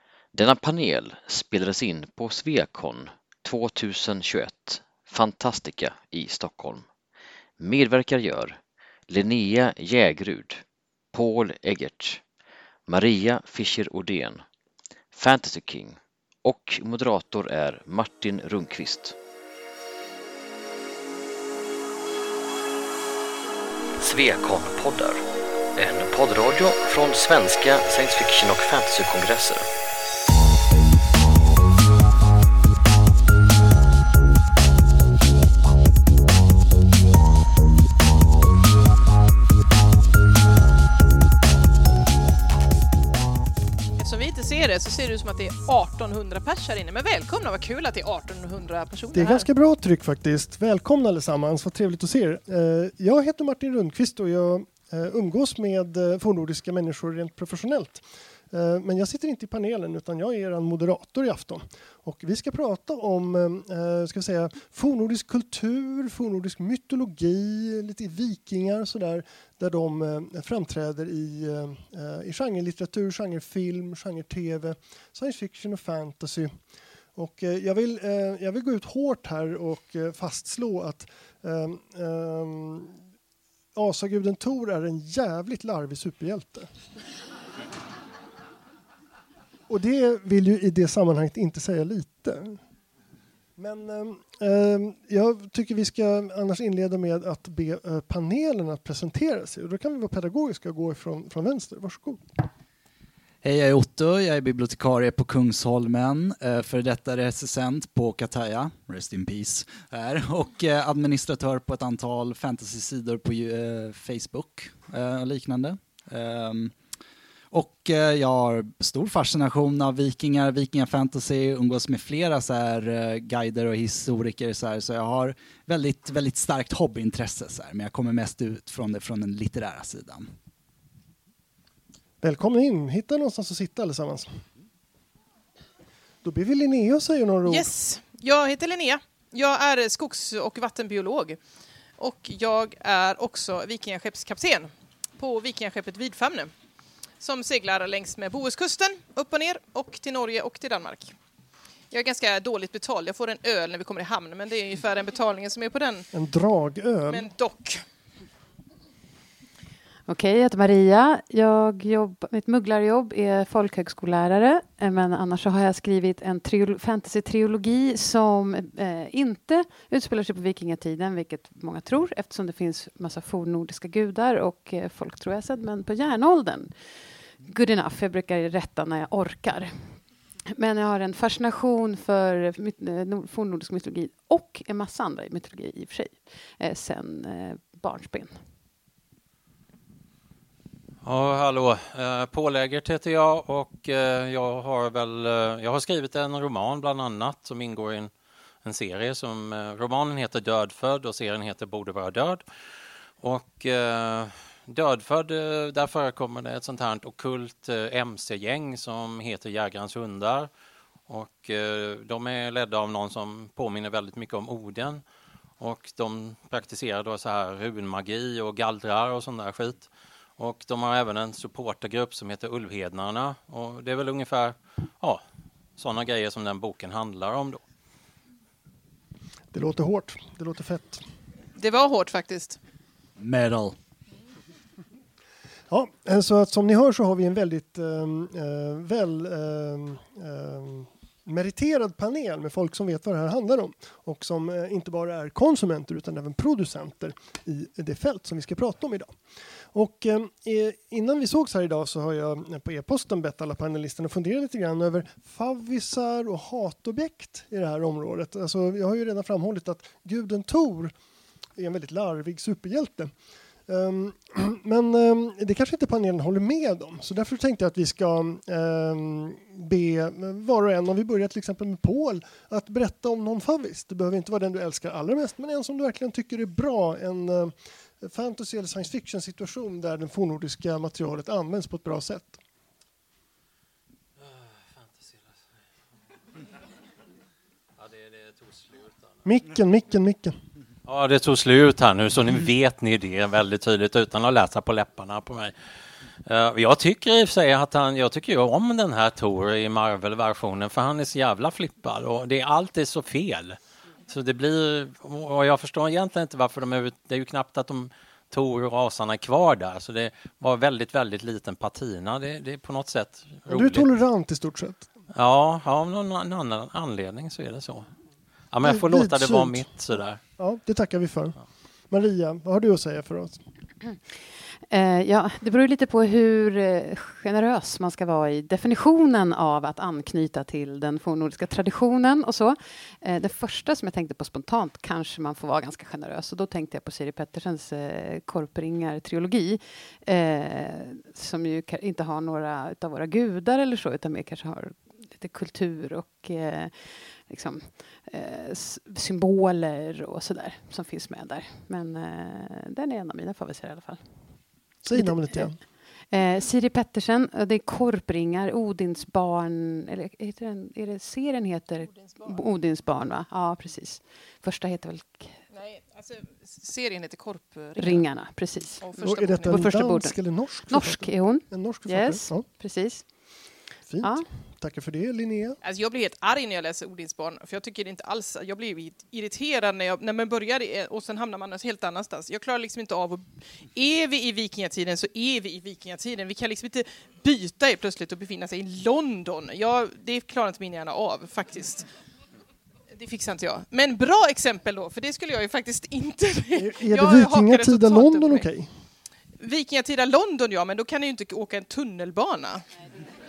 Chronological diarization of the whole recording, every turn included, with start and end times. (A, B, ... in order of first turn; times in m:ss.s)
0:00.3-0:06.8 A
0:07.6-0:12.2 A
0:12.9-0:14.4 A
0:15.1-0:19.2 A
0:24.0-0:25.2 A
0:25.8-0:29.7 A
0:44.0-0:49.5 B
0:49.1-1:16.5 C
1:17.1-1:23.0 C
1:23.7-1:26.7 C
1:29.7-1:32.6 C
1:33.6-1:42.2 C
1:43.4-1:56.7 D
1:57.5-2:10.3 D
2:12.2-2:14.4 C
2:16.2-2:17.7 C
2:17.4-2:21.4 B
2:22.0-2:26.5 B
2:27.2-2:31.1 B
2:31.9-2:36.1 B
2:36.1-2:37.3 C
2:37.1-2:37.8 B
2:40.1-2:56.7 E
2:57.4-2:59.7 E
3:00.5-3:08.3 E
3:11.0-3:18.1 F
3:18.6-3:22.4 F
3:23.2-3:30.5 F
3:31.1-3:35.0 F
3:35.6-3:39.9 F
3:40.4-3:45.2 F
3:45.8-3:47.6 F
3:49.5-3:51.0 C
3:51.6-3:52.6 B
3:53.2-3:53.8 D
3:55.7-4:09.1 C
4:09.7-4:20.9 C
4:21.6-4:23.1 C
4:23.7-4:42.4 C
4:44.2-4:45.3 F
4:47.8-4:49.0 F
4:49.2-4:50.4 C
4:50.8-4:55.5 F
4:56.2-5:13.9 F
5:13.5-5:14.9 C
5:15.1-5:17.9 F
5:18.5-5:20.2 F
5:18.6-5:19.6 C
5:20.4-5:21.4 C
5:21.9-5:23.4 C
5:24.7-5:54.0 E
5:54.8-5:55.6 C
5:54.9-5:55.5 E
5:56.1-6:05.4 E
6:01.9-6:02.4 B
6:05.5-6:08.0 B
6:07.8-6:08.8 E
6:08.8-6:09.6 B
6:09.0-6:12.4 C
6:09.5-6:13.1 E
6:13.9-6:15.6 C
6:15.6-6:31.8 B
6:32.9-6:38.4 B
6:36.6-6:38.7 C
6:39.4-6:42.6 B